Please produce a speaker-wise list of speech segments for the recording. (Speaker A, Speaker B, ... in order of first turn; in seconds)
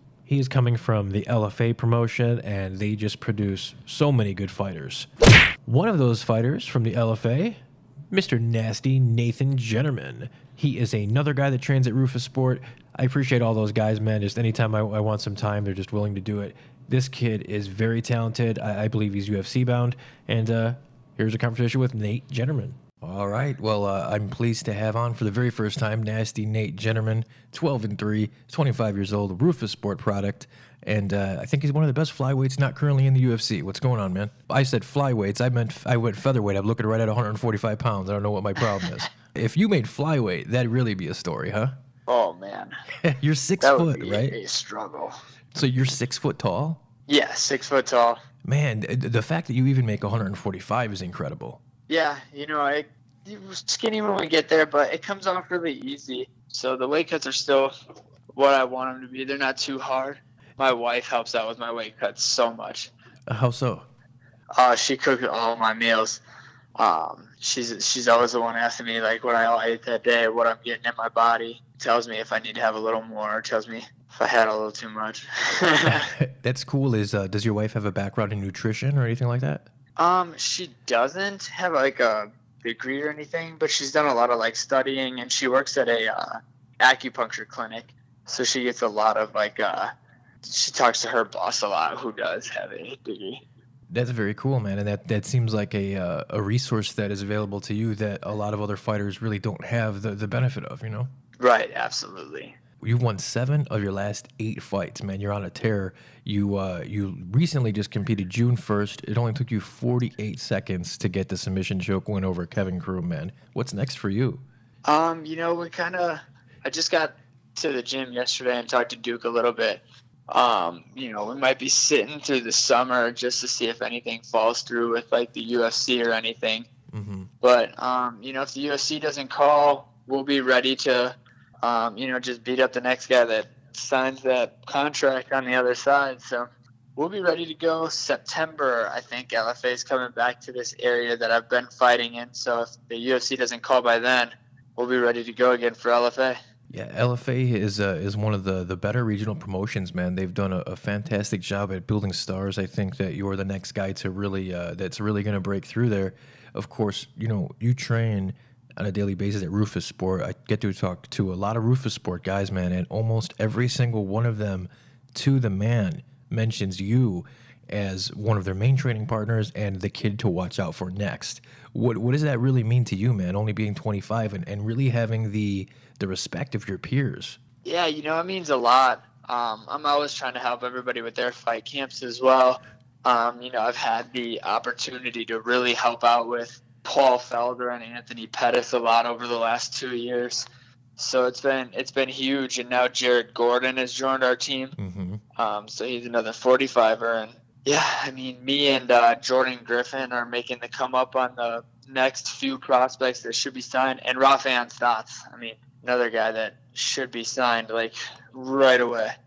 Speaker A: 0.2-5.1, 5.6-7.6, 8.1-41.7, 43.0-44.3, 45.5-46.8, 48.4-51.6, 63.3-63.9, 75.8-79.7, 93.9-101.1, 102.8-114.4, 126.9-127.3, 146.7-177.4, 194.8-195.2
Speaker B: 42.1-42.7, 43.6-45.1, 47.1-48.2, 51.9-57.7, 58.3-62.9, 64.5-66.2, 66.8-76.1, 80.0-89.9, 90.4-93.4, 101.4-102.5, 114.8-126.7, 127.4-146.4, 177.6-190.5, 191.0-194.8, 195.4-209.1